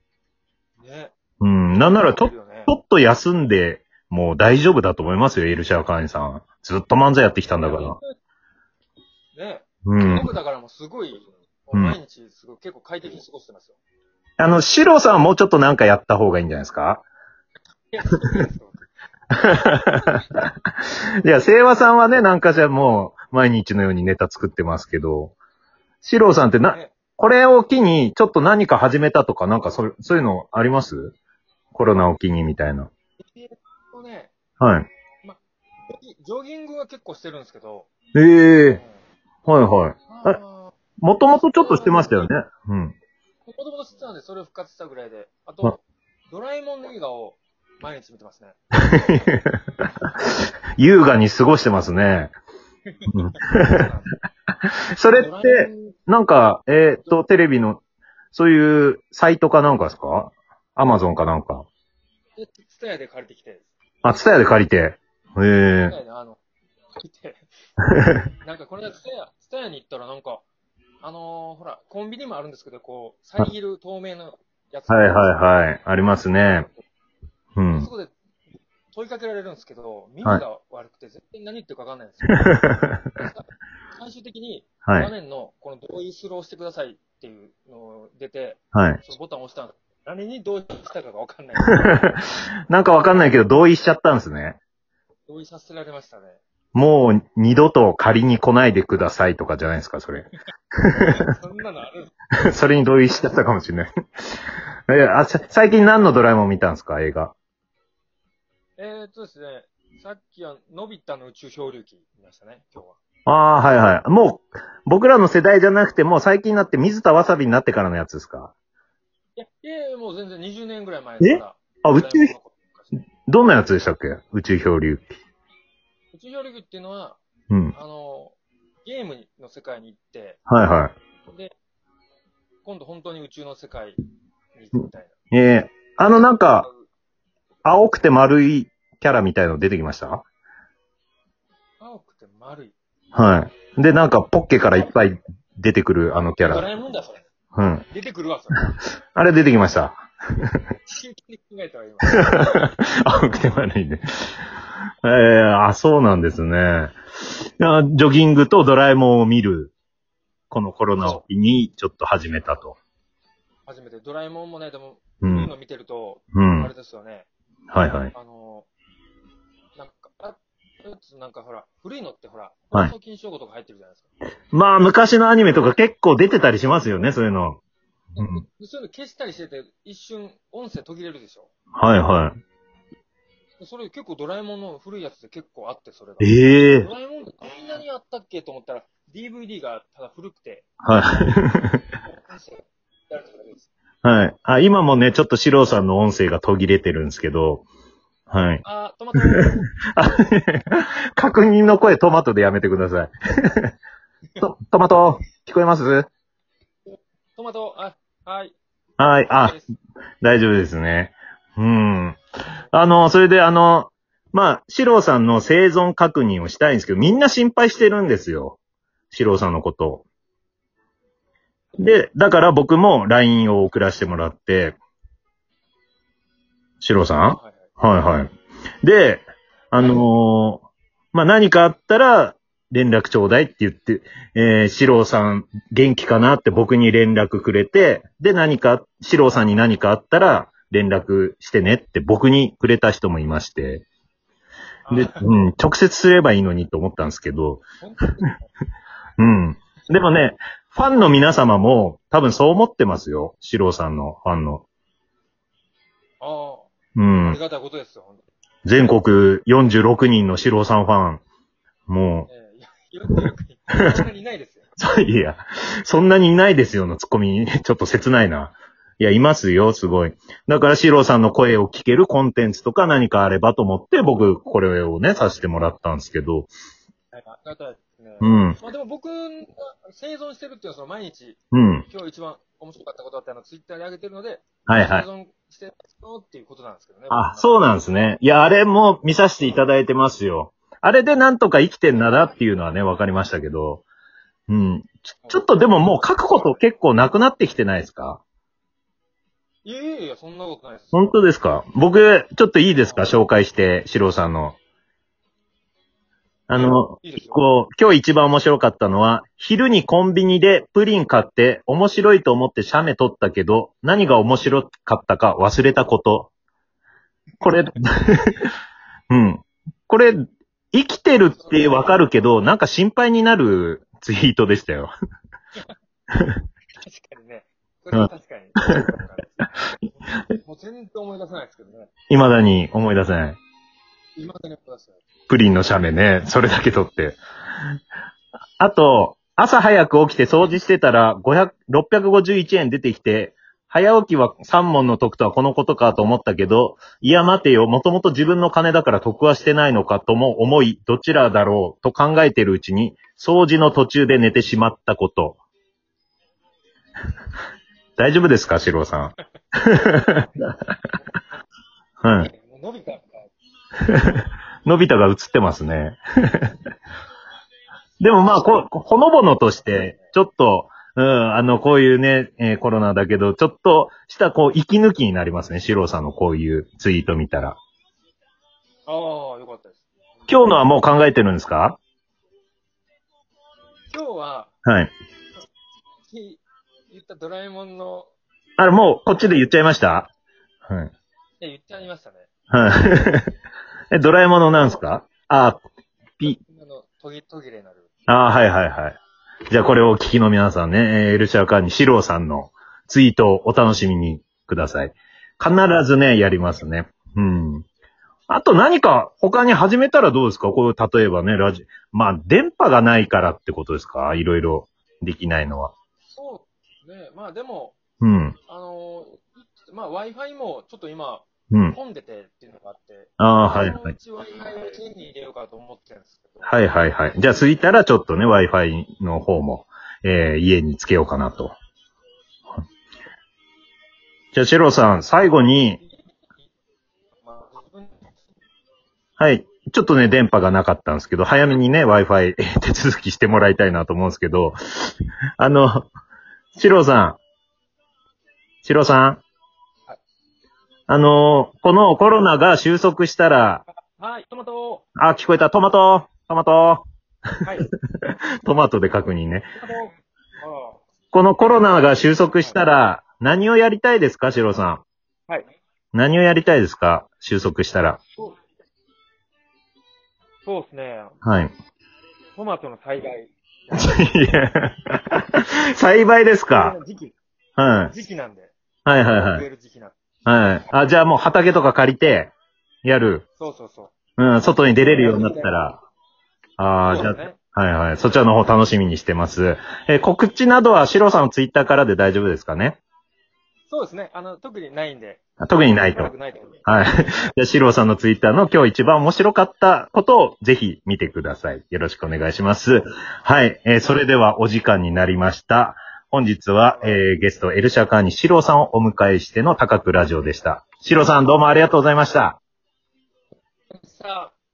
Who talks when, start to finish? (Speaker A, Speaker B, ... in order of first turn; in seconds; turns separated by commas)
Speaker A: 0.8-1.1, Speaker B: 1.4-8.0, Speaker A: 1.7-2.7, Speaker A: 7.6-8.1, Speaker A: 9.3-13.8, Speaker B: 9.8-10.3, Speaker B: 14.4-17.0, Speaker A: 17.9-18.8, Speaker B: 19.3-20.5, Speaker A: 19.8-20.0, Speaker B: 21.2-25.3, Speaker B: 26.0-31.1, Speaker A: 26.7-27.0, Speaker B: 31.7-32.9, Speaker A: 33.2-34.3, Speaker B: 34.6-34.9, Speaker A: 35.2-37.9, Speaker B: 38.1-38.8, Speaker A: 38.7-39.0, Speaker B: 39.5-40.4, Speaker A: 40.1-40.7, Speaker B: 41.0-42.9, Speaker A: 41.3-42.3, Speaker A: 43.5-48.6, Speaker B: 48.8-49.6, Speaker B: 50.8-52.3, Speaker A: 52.9-54.1, Speaker B: 53.1-53.8, Speaker B: 54.9-57.8, Speaker A: 55.1-56.0, Speaker B: 58.3-61.6, Speaker A: 62.4-63.7, Speaker B: 64.0-66.0, Speaker A: 65.8-66.4, Speaker A: 66.9-67.5, Speaker B: 67.8-68.2, Speaker A: 68.4-70.4, Speaker A: 71.0-75.3, Speaker B: 74.9-76.7, Speaker A: 76.5-76.8, Speaker B: 77.5-77.9, Speaker A: 77.7-78.1, Speaker A: 78.9-82.6, Speaker B: 82.3-83.1, Speaker A: 83.1-83.4, Speaker A: 83.9-92.0, Speaker B: 84.8-85.1, Speaker B: 88.7-89.0, Speaker B: 91.8-92.2, Speaker B: 92.7-94.6, Speaker A: 95.3-96.4, Speaker B: 96.7-101.2, Speaker A: 101.0-102.1, Speaker B: 102.4-104.4, Speaker B: 104.9-107.3, Speaker A: 108.8-113.0, Speaker B: 113.2-118.5, Speaker A: 119.3-123.0, Speaker B: 121.2-122.3, Speaker B: 123.2-125.1, Speaker A: 126.1-127.2, Speaker A: 127.7-130.4, Speaker B: 130.5-130.9, Speaker A: 131.3-131.5, Speaker A: 132.6-134.0, Speaker A: 134.5-135.1, Speaker B: 135.3-136.7, Speaker A: 136.2-136.9, Speaker B: 137.6-140.2, Speaker A: 141.8-142.7, Speaker B: 143.1-146.7, Speaker A: 146.4-147.2, Speaker B: 147.5-147.8, Speaker A: 147.9-148.7, Speaker B: 149.1-149.9, Speaker A: 150.8-152.6, Speaker B: 152.5-154.0, Speaker B: 155.0-157.0, Speaker B: 157.6-159.7, Speaker B: 160.5-162.8, Speaker A: 161.0-161.2, Speaker A: 163.7-167.3, Speaker B: 165.2-165.5, Speaker B: 166.3-166.7, Speaker B: 167.7-168.1, Speaker A: 168.1-168.7, Speaker A: 169.7-174.1, Speaker B: 174.5-177.6, Speaker A: 178.1-181.5, Speaker B: 181.7-182.3, Speaker A: 183.6-190.7, Speaker B: 186.2-186.9, Speaker B: 190.8-191.8, Speaker A: 192.0-193.7, Speaker B: 194.0-197.6, Speaker B: 198.3-198.6, Speaker A: 198.6-199.7, Speaker B: 199.1-203.7, Speaker B: 204.4-206.1, Speaker A: 207.3-209.7, Speaker B: 209.0-209.6, Speaker B: 210.2-212.2, Speaker B: 212.7-218.6, Speaker B: 219.1-220.0, Speaker B: 221.8-224.8, Speaker B: 226.8-228.3, Speaker A: 227.2-227.7, Speaker B: 228.8-243.8, Speaker A: 244.8-245.3, Speaker B: 244.9-247.6, Speaker A: 247.8-248.5, Speaker B: 249.2-254.6, Speaker A: 256.2-258.3, Speaker B: 256.9-257.4, Speaker B: 258.6-261.2, Speaker B: 261.9-262.3, Speaker A: 262.3-264.7, Speaker B: 264.8-276.5, Speaker A: 277.1-287.5, Speaker B: 278.2-278.6, Speaker B: 281.5-281.8, Speaker B: 284.6-285.1, Speaker B: 287.1-293.8, Speaker B: 294.5-298.2, Speaker A: 296.3-296.5, Speaker A: 299.6-301.1, Speaker B: 300.9-304.6, Speaker A: 302.8-303.1, Speaker B: 306.5-316.3, Speaker A: 306.5-307.4, Speaker B: 317.4-318.5, Speaker B: 319.1-320.2, Speaker B: 320.7-324.9, Speaker A: 321.3-321.9, Speaker A: 326.8-331.9, Speaker B: 332.1-333.4, Speaker A: 334.1-335.0, Speaker B: 335.3-337.2, Speaker B: 338.6-355.4, Speaker B: 358.0-360.5, Speaker A: 360.0-361.0, Speaker B: 362.0-362.3, Speaker A: 362.1-363.3, Speaker B: 363.9-366.5, Speaker B: 368.0-377.6, Speaker A: 378.9-380.5, Speaker B: 380.3-381.8, Speaker A: 383.9-384.5, Speaker B: 384.6-384.9, Speaker A: 386.1-388.1, Speaker B: 388.6-390.1, Speaker B: 390.7-390.9, Speaker A: 391.4-392.3, Speaker B: 392.5-393.3, Speaker B: 393.9-395.6, Speaker A: 396.2-397.9, Speaker B: 398.1-399.0, Speaker B: 399.5-407.6, Speaker B: 408.3-415.7, Speaker A: 416.1-417.8, Speaker B: 418.0-418.4, Speaker A: 418.5-426.6, Speaker B: 421.5-421.8, Speaker B: 423.2-423.9, Speaker B: 426.4-431.5, Speaker B: 434.3-435.8, Speaker A: 435.8-436.5, Speaker A: 437.2-438.1, Speaker B: 439.2-445.9, Speaker B: 446.5-447.2, Speaker B: 448.6-449.2, Speaker B: 450.9-453.6, Speaker A: 453.9-454.8, Speaker B: 454.9-456.8, Speaker A: 457.4-457.7, Speaker B: 458.0-459.5, Speaker A: 459.6-460.8, Speaker B: 461.1-464.8, Speaker B: 465.9-468.0, Speaker A: 470.4-471.2, Speaker B: 471.2-471.5, Speaker A: 472.3-474.0, Speaker B: 473.7-476.7, Speaker A: 476.5-477.1, Speaker B: 477.6-477.9, Speaker A: 477.9-478.5, Speaker B: 478.8-479.4, Speaker A: 479.1-479.9, Speaker B: 480.2-482.3, Speaker B: 482.8-483.2, Speaker A: 483.4-483.9, Speaker B: 484.2-485.8, Speaker A: 484.8-485.6, Speaker B: 486.6-492.8, Speaker A: 486.9-487.4, Speaker A: 493.7-495.2, Speaker B: 495.4-496.1, Speaker A: 495.8-496.6, Speaker B: 496.6-512.4, Speaker A: 506.7-507.0, Speaker A: 513.8-514.3